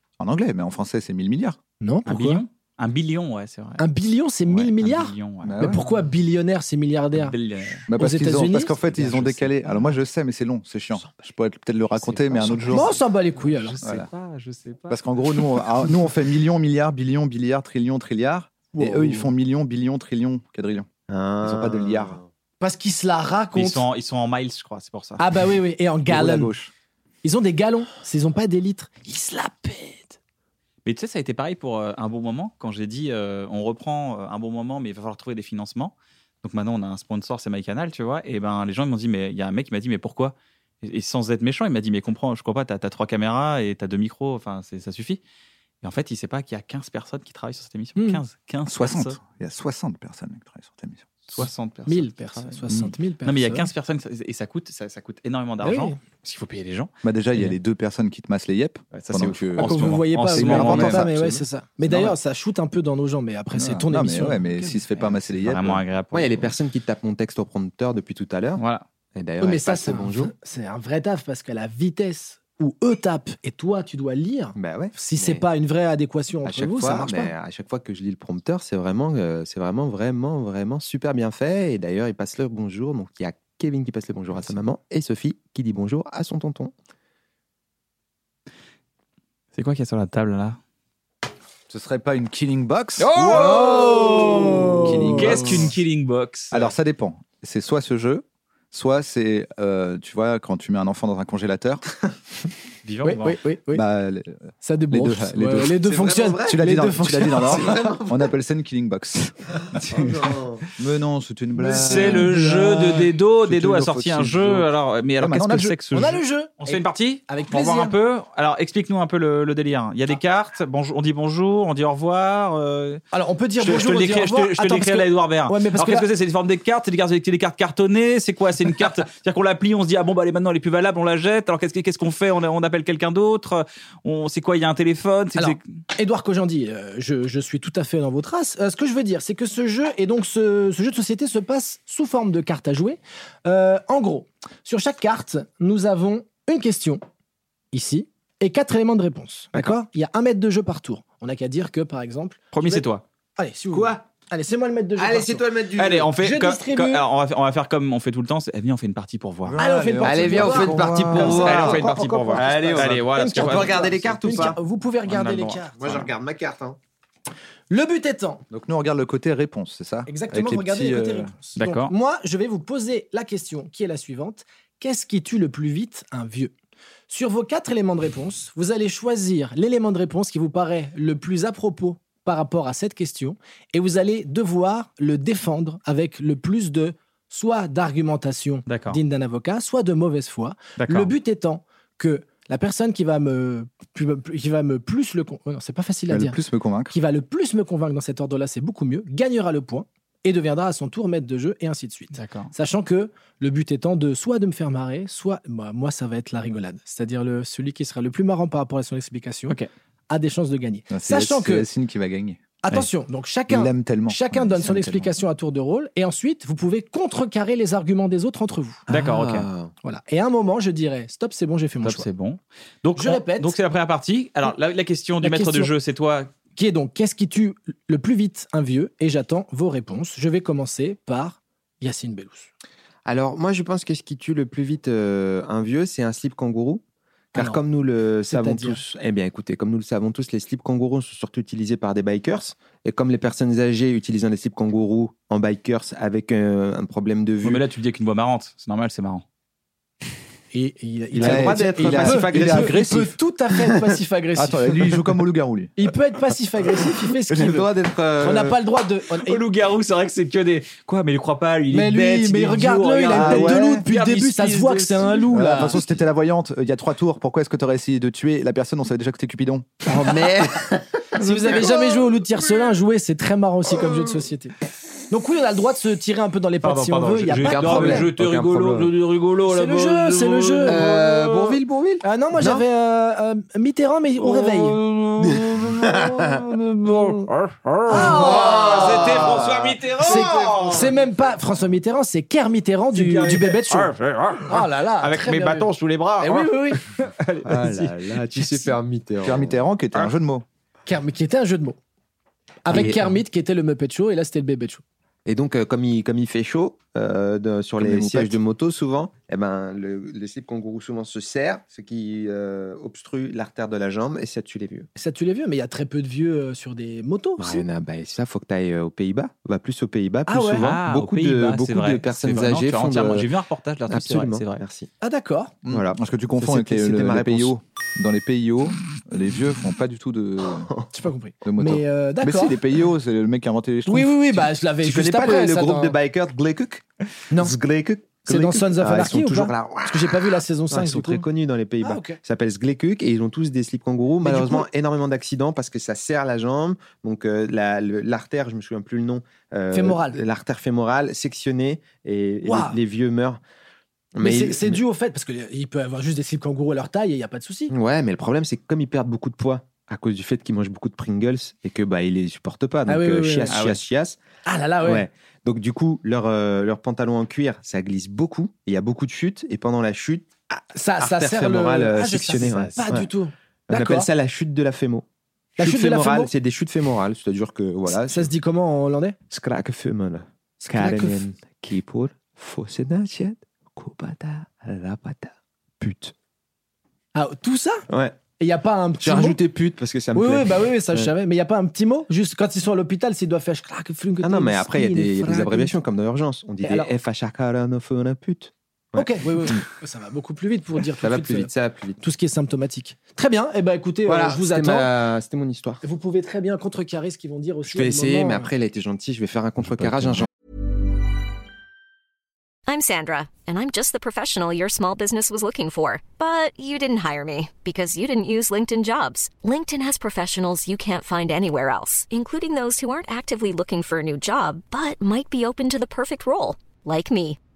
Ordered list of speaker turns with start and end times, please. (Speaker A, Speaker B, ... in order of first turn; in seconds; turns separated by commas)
Speaker A: 0.2-1.6, Speaker B: 1.8-2.4, Speaker C: 2.1-3.8, Speaker B: 3.8-7.3, Speaker C: 4.5-5.6, Speaker A: 5.4-5.8, Speaker C: 7.1-7.9, Speaker A: 7.9-12.9, Speaker B: 7.9-9.5, Speaker C: 12.0-15.0, Speaker B: 12.7-13.8, Speaker A: 13.8-14.1, Speaker A: 14.9-20.9, Speaker B: 18.7-19.3, Speaker D: 21.1-22.2, Speaker A: 21.4-22.2, Speaker B: 22.6-23.9, Speaker C: 23.5-25.2, Speaker B: 25.2-26.5, Speaker A: 26.1-26.7, Speaker B: 27.2-30.2, Speaker C: 30.8-45.2, Speaker C: 45.8-49.2, Speaker B: 48.0-48.2, Speaker A: 48.7-51.5, Speaker C: 51.3-52.7, Speaker B: 51.9-53.7, Speaker C: 53.2-56.9, Speaker B: 55.6-56.0, Speaker A: 57.0-61.1, Speaker C: 58.9-61.0, Speaker B: 59.6-65.5, Speaker D: 61.0-61.4, Speaker A: 61.8-62.1, Speaker A: 63.5-65.8, Speaker C: 65.4-66.5, Speaker D: 66.1-68.6, Speaker C: 68.6-68.8, Speaker D: 69.2-70.3, Speaker B: 69.4-77.3, Speaker D: 74.5-75.4, Speaker D: 76.4-86.7, Speaker C: 89.5-90.6, Speaker A: 91.7-93.6, Speaker D: 93.0-94.9, Speaker C: 93.2-93.5, Speaker B: 93.2-95.7, Speaker A: 94.8-95.7, Speaker C: 95.1-96.7, Speaker A: 96.5-101.8, Speaker C: 102.8-103.4, Speaker B: 103.0-103.8, Speaker A: 103.7-115.8, Speaker B: 104.6-107.9, Speaker D: 105.9-106.7, Speaker D: 107.4-108.3, Speaker D: 109.9-110.6, Speaker D: 111.6-112.2, Speaker C: 111.8-123.0, Speaker B: 112.3-113.0, Speaker B: 115.9-117.9, Speaker B: 123.1-126.1, Speaker C: 123.6-135.6, Speaker B: 135.3-147.0, Speaker B: 147.7-152.8, Speaker C: 152.5-153.0, Speaker B: 153.4-155.4, Speaker D: 153.7-154.0, Speaker D: 155.0-156.1, Speaker C: 155.8-159.6, Speaker B: 156.2-157.0, Speaker A: 159.4-161.7, Speaker B: 159.6-165.8, Speaker D: 160.0-164.6, Speaker C: 161.2-164.5, Speaker C: 165.1-166.1, Speaker D: 165.8-166.8, Speaker B: 167.7-168.4, Speaker A: 168.5-171.3, Speaker B: 170.1-176.5, Speaker C: 171.6-171.9, Speaker B: 177.1-196.4, Speaker C: 188.7-189.0, Speaker C: 190.8-191.1, Speaker A: 196.1-196.9, Speaker B: 196.9-209.6, Speaker C: 202.1-202.5, Speaker B: 210.1-211.7, Speaker A: 210.9-212.4, Speaker B: 212.6-218.8, Speaker A: 213.5-215.1, Speaker C: 218.9-219.5, Speaker D: 218.9-219.7, Speaker B: 219.8-222.1, Speaker C: 221.8-226.3, Speaker B: 223.0-223.5, Speaker B: 225.2-225.7, Speaker B: 226.6-232.5, Speaker D: 233.1-236.8, Speaker B: 237.3-237.6, Speaker D: 237.3-247.6, Speaker B: 238.3-238.8, Speaker C: 247.4-249.2, Speaker B: 250.5-255.0, Speaker D: 251.1-252.9, Speaker A: 251.2-253.1, Speaker A: 254.3-255.7, Speaker B: 255.8-257.7, Speaker D: 257.3-258.6, Speaker B: 258.2-259.4, Speaker C: 259.2-265.3, Speaker B: 261.7-265.8, Speaker D: 263.1-263.6, Speaker A: 263.1-263.8, Speaker A: 265.3-269.9, Speaker D: 269.9-272.3, Speaker B: 271.1-274.5, Speaker B: 275.1-278.1, Speaker C: 276.6-281.6, Speaker D: 277.3-278.9, Speaker B: 279.5-280.9, Speaker D: 280.6-282.6, Speaker B: 282.0-284.8, Speaker C: 284.2-290.9, Speaker D: 285.2-286.4, Speaker B: 287.9-288.8, Speaker D: 287.9-290.9, Speaker B: 290.0-293.9, Speaker C: 292.9-298.7, Speaker B: 294.5-295.7, Speaker B: 296.2-296.8, Speaker D: 297.4-299.6, Speaker A: 299.2-300.4, Speaker B: 300.9-301.8, Speaker B: 302.6-304.8, Speaker D: 302.7-303.1, Speaker D: 305.2-314.9, Speaker A: 307.8-308.4, Speaker B: 314.9-317.6, Speaker D: 317.4-323.3, Speaker B: 320.3-320.7, Speaker C: 320.6-324.6, Speaker D: 323.9-324.9, Speaker B: 325.0-325.5, Speaker A: 325.6-330.7, Speaker D: 325.7-327.5, Speaker B: 330.9-332.6, Speaker A: 331.4-334.5, Speaker B: 333.9-335.9, Speaker D: 334.8-353.4, Speaker B: 338.2-341.2, Speaker B: 341.8-342.2, Speaker B: 344.2-344.7, Speaker B: 349.7-350.2, Speaker B: 352.4-352.8, Speaker D: 354.1-354.8, Speaker B: 354.2-357.7, Speaker D: 357.7-364.2, Speaker B: 362.9-363.6, Speaker C: 363.5-363.8, Speaker B: 364.4-365.1, Speaker D: 364.8-373.1, Speaker B: 370.7-374.1, Speaker C: 372.4-372.9, Speaker D: 373.7-375.1, Speaker D: 375.6-378.3, Speaker B: 375.6-376.3, Speaker B: 377.9-379.2, Speaker D: 379.3-386.1, Speaker B: 380.6-381.2, Speaker B: 387.1-387.9, Speaker D: 387.9-388.2, Speaker B: 388.4-389.4, Speaker D: 389.0-391.1, Speaker B: 390.1-395.8, Speaker D: 394.2-399.6, Speaker B: 396.6-396.9, Speaker B: 398.9-404.9, Speaker D: 400.9-402.0, Speaker D: 404.1-405.8, Speaker B: 405.8-408.5, Speaker D: 407.6-410.3, Speaker E: 412.7-427.4